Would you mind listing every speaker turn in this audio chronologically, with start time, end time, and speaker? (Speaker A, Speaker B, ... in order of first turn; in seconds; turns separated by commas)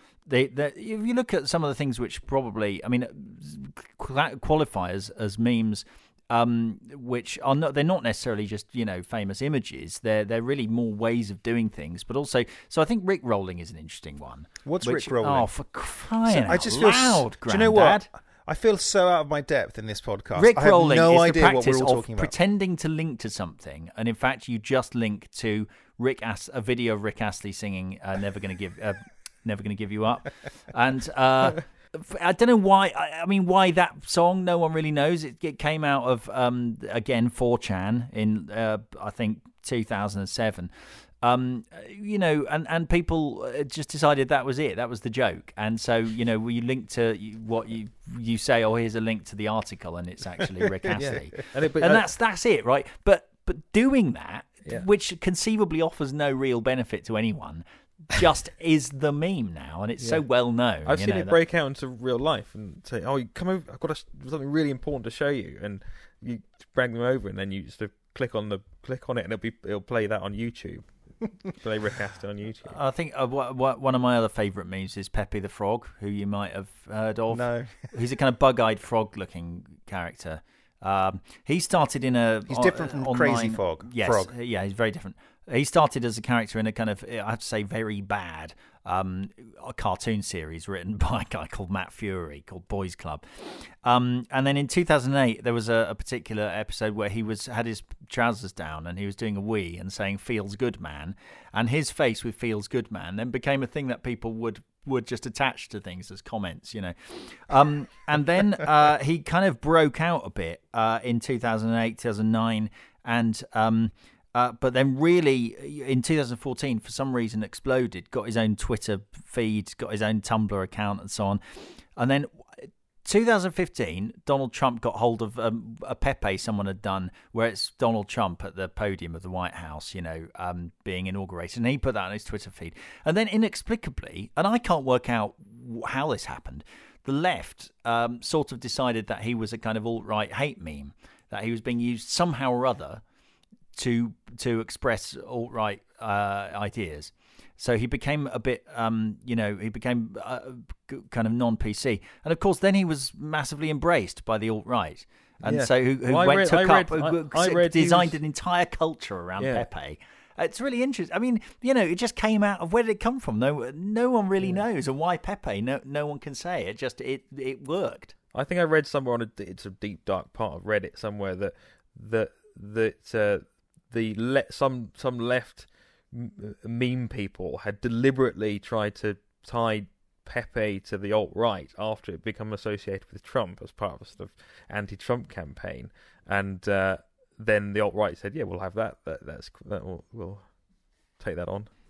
Speaker A: 0.2-18.1, Speaker B: 14.6-15.5, Speaker B: 16.2-22.3, Speaker A: 20.4-61.4, Speaker C: 50.9-52.0, Speaker C: 60.8-72.7, Speaker A: 72.7-143.0, Speaker B: 77.3-77.9, Speaker B: 82.5-84.3, Speaker A: 143.7-168.1, Speaker C: 155.4-158.2, Speaker C: 159.4-159.7, Speaker C: 168.3-190.6, Speaker C: 191.2-191.7